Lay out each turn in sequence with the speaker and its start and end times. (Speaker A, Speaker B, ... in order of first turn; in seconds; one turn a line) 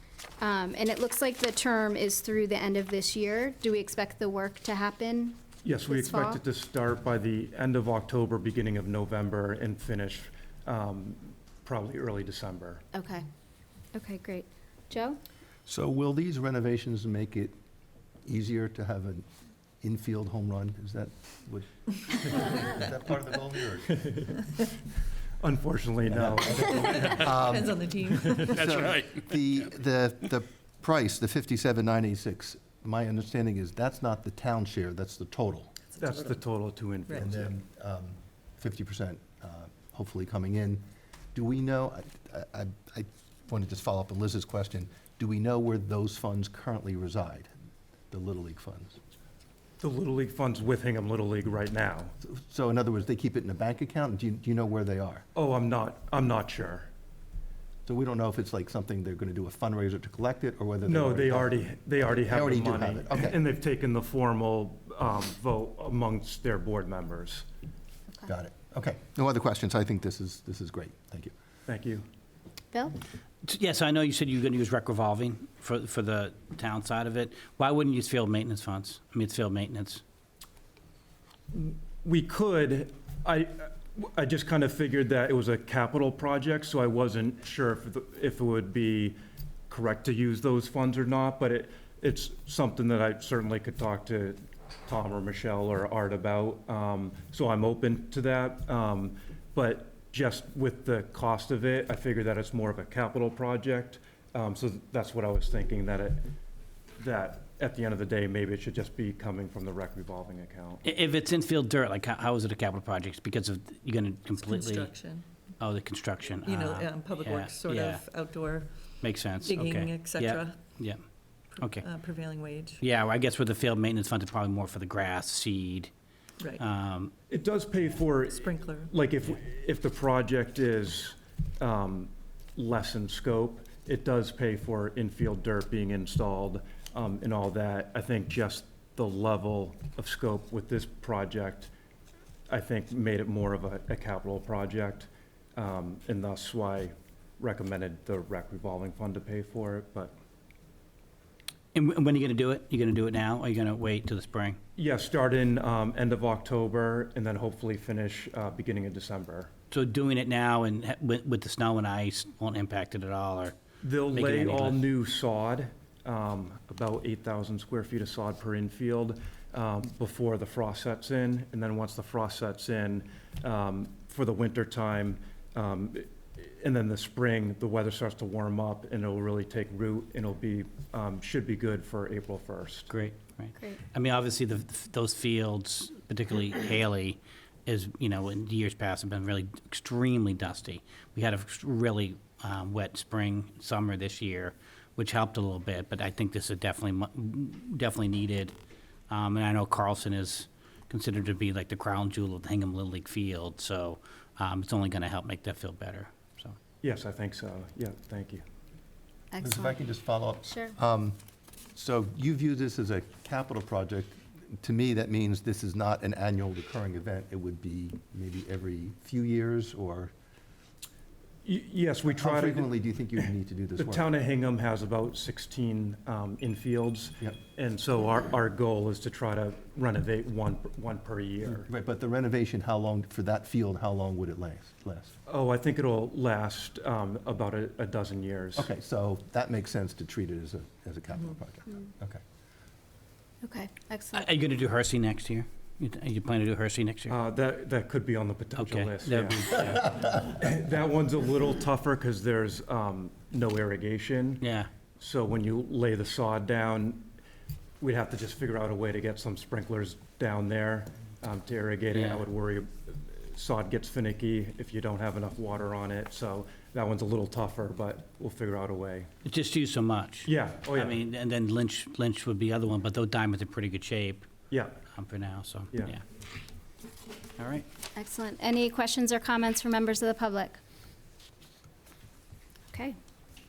Speaker A: 0.4-6.4
Speaker B: 5.6-12.8
Speaker A: 12.9-13.2
Speaker A: 13.9-15.2
Speaker C: 15.7-17.5
Speaker C: 18.2-19.3
Speaker C: 19.8-24.1
Speaker B: 24.0-24.2
Speaker B: 25.4-27.3
Speaker C: 26.1-27.8
Speaker D: 27.1-29.0
Speaker C: 28.3-35.7
Speaker D: 35.9-36.4
Speaker B: 36.0-37.5
Speaker C: 37.1-47.5
Speaker C: 48.1-49.0
Speaker B: 49.8-52.1
Speaker C: 52.2-55.2
Speaker B: 55.3-56.9
Speaker C: 57.9-63.4
Speaker B: 60.8-67.5
Speaker C: 68.2-71.3
Speaker B: 71.7-72.0
Speaker A: 72.7-73.0
Speaker E: 73.4-80.0
Speaker B: 81.5-89.2
Speaker B: 89.7-106.3
Speaker B: 107.0-110.8
Speaker E: 110.8-114.9
Speaker D: 114.3-115.3
Speaker E: 115.6-118.0
Speaker D: 116.4-118.7
Speaker E: 119.0-121.0
Speaker D: 119.4-120.8
Speaker D: 121.5-122.8
Speaker E: 121.6-121.8
Speaker E: 122.8-125.9
Speaker E: 126.5-127.1
Speaker B: 127.3-141.7
Speaker D: 128.3-129.0
Speaker B: 142.5-150.1
Speaker E: 151.7-154.6
Speaker B: 154.8-159.5
Speaker E: 159.7-163.5
Speaker B: 163.8-182.9
Speaker E: 164.1-164.8
Speaker E: 182.9-198.5
Speaker E: 199.1-206.6
Speaker B: 206.8-208.4
Speaker A: 209.3-209.8
Speaker C: 209.4-211.2
Speaker C: 211.7-220.1
Speaker B: 221.4-223.2
Speaker C: 222.1-224.1
Speaker B: 223.8-231.7
Speaker C: 231.5-235.1
Speaker B: 235.3-238.7
Speaker C: 238.6-242.2
Speaker A: 243.4-244.3
Speaker E: 244.1-247.2
Speaker B: 247.1-254.4
Speaker E: 248.6-250.1
Speaker E: 254.4-254.7
Speaker B: 255.0-257.1
Speaker B: 257.8-269.1
Speaker E: 261.9-262.2
Speaker E: 269.2-274.2
Speaker B: 270.2-271.0
Speaker B: 274.5-274.8
Speaker E: 274.9-276.0
Speaker E: 277.4-277.6
Speaker A: 277.9-280.6